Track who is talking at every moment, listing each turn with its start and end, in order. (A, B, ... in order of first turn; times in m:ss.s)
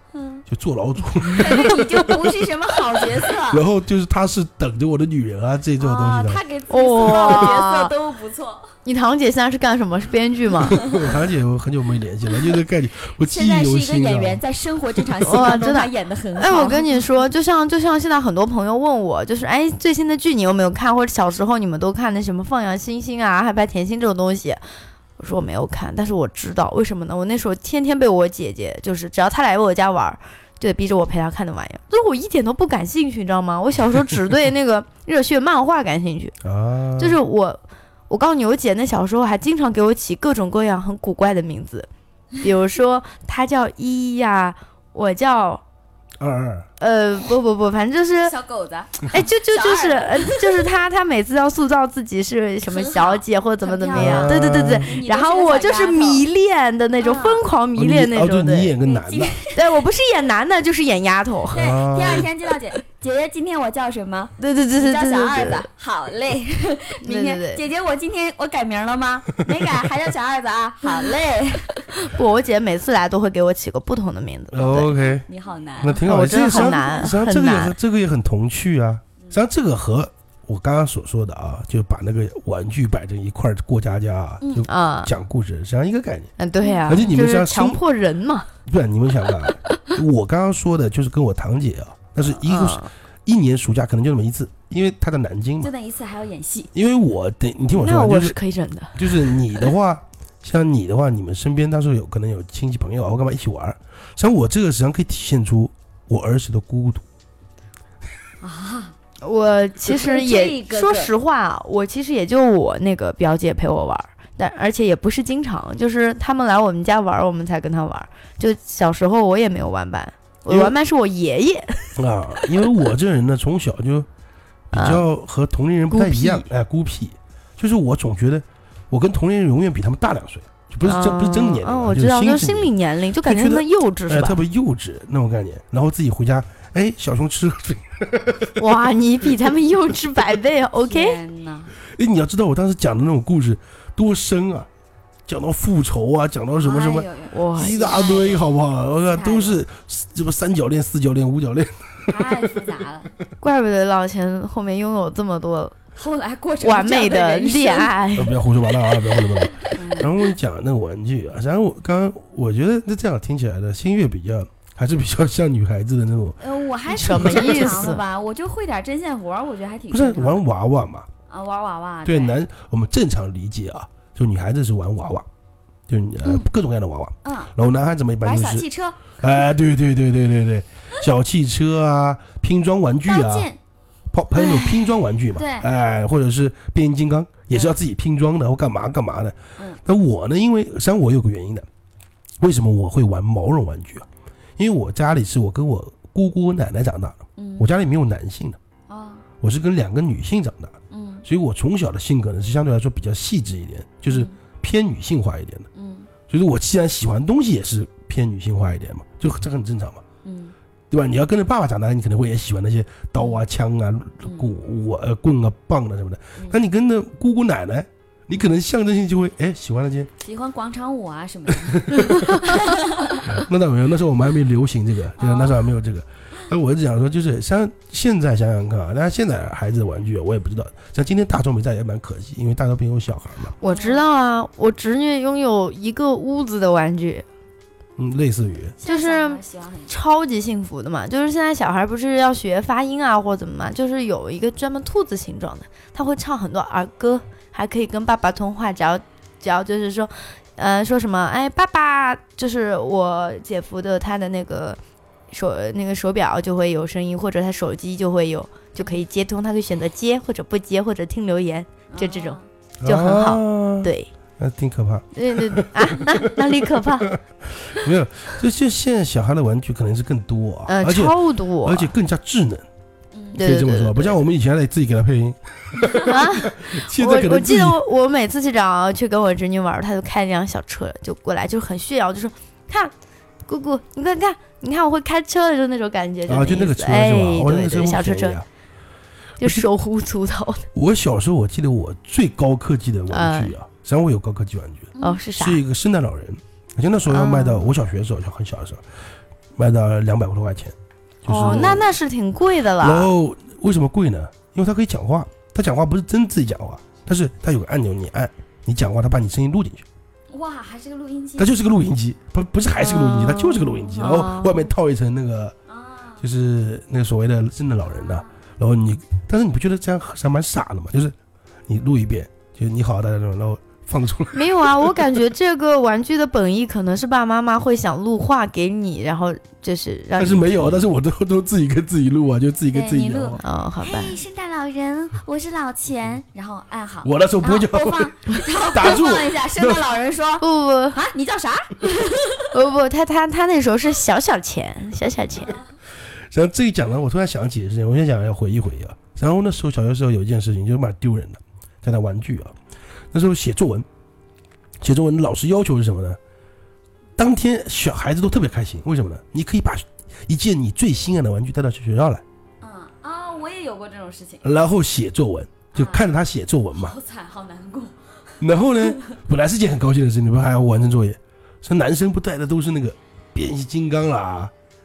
0:00.1-0:00.4 A
0:00.4-0:06.4 B
0:01.2-0:03.6 A
0:05.8-0:08.7 A
0:06.7-0:07.9 C
0:07.2-0:07.5 B
0:08.8-0:10.8 C
0:10.7-0:14.4 B
0:10.7-0:11.2 A
0:12.3-0:12.6 A
0:13.2-0:17.0 A
0:15.0-0:15.6 B
0:15.2-0:24.6 C
0:25.2-0:36.3 C
0:36.4-0:37.2 B
0:37.0-0:41.9 C
0:42.4-0:45.6 C
0:46.2-0:46.7 B
0:46.8-0:48.3 C
0:48.2-0:50.7 A
0:49.1-0:58.7 C
0:52.6-0:56.2 A
0:53.9-0:54.9 B
0:57.0-0:57.4 A
0:57.8-0:59.4 B
0:58.8-0:59.6 A
0:59.5-1:01.7 C
1:01.5-1:11.8 A
1:01.5-1:02.3 B
1:04.4-1:05.7 C
1:07.0-1:07.6 C
1:11.9-1:14.9 C
1:14.5-1:15.3 B
1:14.6-1:16.8 A
1:15.8-1:26.3 B
1:16.0-1:17.8 C
1:24.4-1:24.6 A
1:24.7-1:25.1 C
1:26.4-1:28.5 C
1:26.6-1:27.1 A
1:26.9-1:27.8 B
1:28.6-1:35.7 B
1:29.4-1:29.8 C
1:32.2-1:32.9 C
1:35.6-1:36.7 A
1:36.7-1:38.4 B
1:37.7-1:39.6 C
1:38.9-1:47.0 B
1:48.4-1:48.9 A
1:49.2-2:02.7 C
1:49.8-1:51.1 A
2:00.5-2:00.7 B
2:02.0-2:04.1 B
2:04.7-2:18.6 B
2:04.7-2:05.0 C
2:05.9-2:06.5 C
2:10.8-2:14.4 C
2:18.6-2:21.2 C
2:19.2-2:19.5 B
2:20.8-2:21.8 A
2:21.8-2:24.7 B
2:25.2-2:32.6 B
2:26.6-2:28.5 A
2:27.3-2:28.1 C
2:29.1-2:29.6 A
2:32.1-2:33.1 A
2:33.4-2:35.7 C
2:35.9-2:38.0 A
2:36.6-2:38.4 C
2:38.1-2:46.4 B
2:39.6-2:40.2 A
2:46.4-2:50.4 A
2:46.9-2:48.0 C
2:47.1-2:47.9 B
2:49.9-2:51.1 B
2:51.3-2:52.4 A
2:52.0-2:55.3 B
2:55.9-2:58.6 B
2:57.2-2:57.5 A
2:58.2-2:59.3 A
2:59.2-3:03.5 B
3:03.0-3:03.6 A
3:04.1-3:11.7 B
3:05.3-3:05.7 A
3:07.5-3:07.8 A
3:12.4-3:14.1 B
3:14.6-3:18.6 B
3:17.4-3:17.7 A
3:18.9-3:19.2 A
3:19.4-3:25.7 B
3:20.9-3:21.2 A
3:24.1-3:24.3 A
3:25.7-3:26.1 A
3:26.3-3:30.0 B
3:30.2-3:30.5 A
3:30.9-3:40.1 B
3:33.2-3:33.4 A
3:34.2-3:34.5 A
3:40.2-3:43.4 A
3:41.6-3:42.6 B
3:43.2-3:53.5 B
3:45.2-3:45.7 A
3:53.6-3:57.2 C
3:53.6-3:54.0 A
3:58.0-3:58.8 B
3:58.8-3:59.9 A
3:58.8-4:14.8 C
4:15.3-4:24.1 C
4:21.9-4:22.4 A
4:22.8-4:32.6 B
4:25.1-4:27.1 C
4:30.7-4:31.9 C
4:33.1-4:33.4 A
4:33.3-4:34.1 C
4:33.3-4:37.8 B
4:35.8-4:36.0 A
4:36.0-4:42.9 C
4:43.5-4:48.4 C
4:46.3-4:48.4 B
4:49.4-4:50.6 C
4:50.7-4:58.8 B
4:53.1-4:53.6 C
4:54.9-4:55.2 A
4:55.0-4:55.6 C
4:57.1-4:57.7 C
4:59.5-5:01.9 B
5:01.2-5:03.1 C
5:02.8-5:09.8 B
5:10.3-5:11.6 A
5:11.4-5:15.5 B
5:12.8-5:14.6 C
5:15.7-5:16.2 A
5:16.2-5:21.1 B
5:17.9-5:18.3 A
5:21.7-5:25.2 B
5:24.3-5:30.5 C
5:30.2-5:33.4 B
5:32.7-5:42.5 A
5:33.4-5:34.2 C
5:37.0-5:39.9 B
5:40.4-5:41.0 C
5:42.5-5:45.6 C
5:46.3-5:52.5 B
5:53.1-5:53.8 B
5:54.8-5:56.2 B
5:57.2-6:02.2 B
6:02.6-6:04.4 A
6:04.4-6:07.0 B
6:05.7-6:06.1 A
6:06.7-6:09.2 A
6:08.4-6:14.5 B